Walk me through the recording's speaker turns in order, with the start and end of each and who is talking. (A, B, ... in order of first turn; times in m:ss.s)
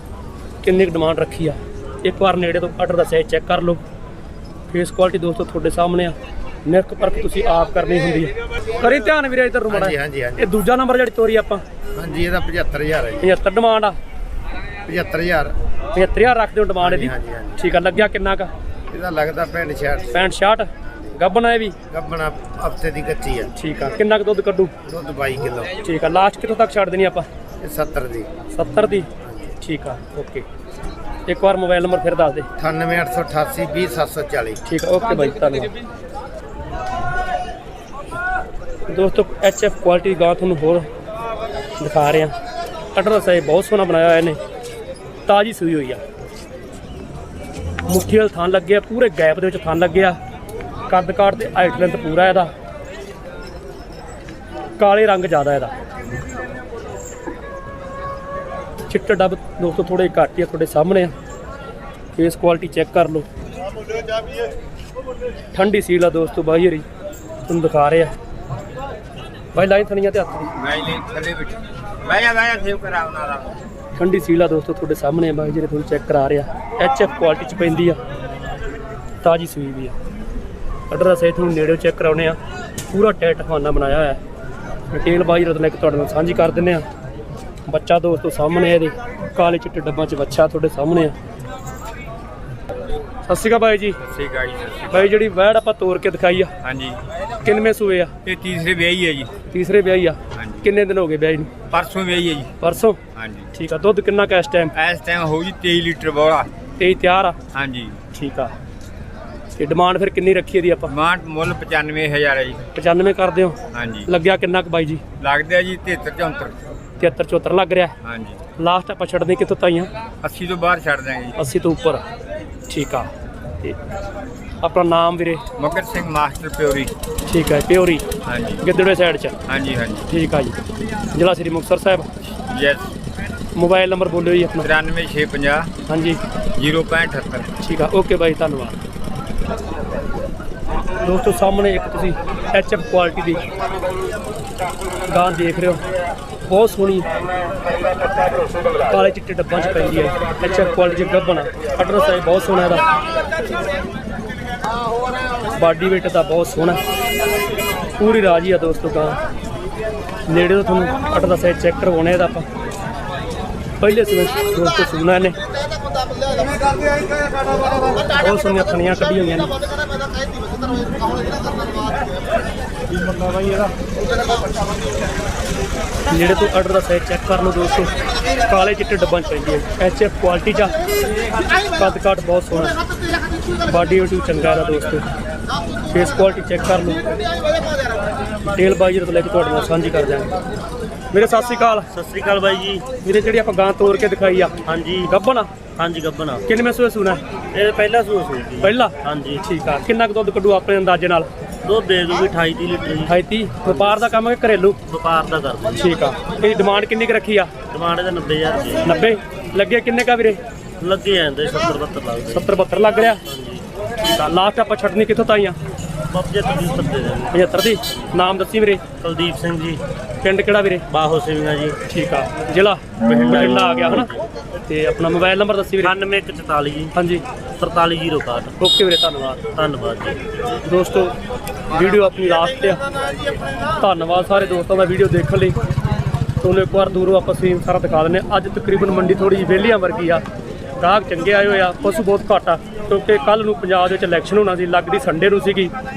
0:00.6-0:03.8 A
0:04.7-0:11.6 A
0:09.7-0:10.4 B
0:12.0-0:13.3 B
0:13.2-0:14.0 A
0:14.8-0:15.5 B
0:15.9-0:18.5 A
0:16.8-0:17.6 B
0:18.9-0:20.2 B
0:20.1-0:21.8 A
0:21.9-0:23.5 B
0:23.5-0:24.7 A
0:24.8-0:25.8 B
0:25.8-0:27.3 A
0:27.6-0:28.3 B
0:28.5-0:29.1 A
0:29.6-0:30.4 A
0:31.3-0:32.5 A
0:32.6-0:34.6 B
0:34.6-0:35.7 A
0:38.9-0:40.9 A
0:41.8-0:42.3 A
0:42.9-0:44.4 A
0:45.3-0:46.0 A
0:47.8-0:50.2 A
0:50.9-0:52.5 A
0:54.8-0:55.8 A
0:58.9-1:01.1 A
1:02.2-1:03.3 A
1:05.5-1:06.8 A
1:07.4-1:08.1 A
1:09.5-1:10.5 A
1:10.6-1:13.6 C
1:13.9-1:18.0 A
1:19.2-1:20.0 A
1:20.9-1:22.4 A
1:22.9-1:24.2 A
1:24.9-1:26.8 A
1:27.7-1:31.1 A
1:33.2-1:34.0 A
1:34.0-1:35.1 C
1:34.9-1:36.5 A
1:36.6-1:37.0 C
1:37.4-1:38.1 A
1:38.2-1:39.3 C
1:39.5-1:41.5 A
1:40.3-1:40.6 C
1:41.7-1:42.5 C
1:42.6-1:43.0 A
1:43.1-1:43.5 C
1:43.5-1:44.7 A
1:44.7-1:46.5 C
1:46.8-1:47.4 A
1:47.5-1:48.0 C
1:48.1-1:48.5 A
1:49.6-1:50.9 A
1:50.9-1:52.6 C
1:52.7-1:55.0 A
1:53.7-1:54.1 C
1:55.2-1:56.6 C
1:57.0-1:57.9 A
1:58.0-1:58.4 C
1:58.6-1:59.9 A
2:00.2-2:01.4 C
2:01.4-2:02.0 A
2:02.7-2:03.8 A
2:04.6-2:05.4 A
2:05.6-2:06.9 C
2:07.3-2:08.0 A
2:08.2-2:08.6 C
2:08.6-2:09.4 A
2:09.5-2:10.1 C
2:10.1-2:10.5 A
2:11.1-2:12.1 A
2:12.4-2:12.9 C
2:13.6-2:14.7 A
2:14.6-2:15.7 C
2:15.9-2:16.2 A
2:16.6-2:17.5 C
2:17.6-2:18.8 A
2:21.0-2:23.4 A
2:25.1-2:25.8 A
2:26.5-2:27.1 A
2:28.9-2:32.8 A
2:35.5-2:36.8 A
2:38.0-2:39.2 A
2:40.3-2:42.5 A
2:43.8-2:45.4 A
2:48.1-2:49.5 A
2:56.1-3:00.7 A
3:01.7-3:02.8 A
3:03.6-3:05.0 A
3:05.9-3:07.1 A
3:08.5-3:10.3 A
3:11.1-3:11.9 A
3:11.9-3:12.9 D
3:13.0-3:15.5 A
3:14.6-3:15.1 D
3:15.8-3:16.4 D
3:16.5-3:17.2 A
3:17.5-3:19.4 D
3:18.6-3:21.3 A
3:21.6-3:23.1 D
3:23.1-3:24.8 A
3:23.6-3:24.0 D
3:24.9-3:25.8 D
3:25.8-3:27.5 A
3:27.7-3:29.0 D
3:28.8-3:30.4 A
3:30.8-3:32.5 D
3:32.3-3:33.2 A
3:33.2-3:33.6 D
3:34.1-3:35.6 A
3:36.1-3:37.4 D
3:37.3-3:38.8 A
3:39.0-3:39.8 D
3:40.2-3:40.8 A
3:40.9-3:41.8 D
3:41.9-3:44.1 A
3:43.0-3:44.2 D
3:44.7-3:46.0 A
3:45.8-3:46.9 D
3:46.9-3:47.2 A
3:47.6-3:48.6 D
3:48.6-3:49.5 A
3:49.5-3:50.4 D
3:50.6-3:51.1 A
3:51.7-3:52.8 A
3:53.8-3:55.6 A
3:56.4-4:00.2 A
4:00.8-4:05.7 A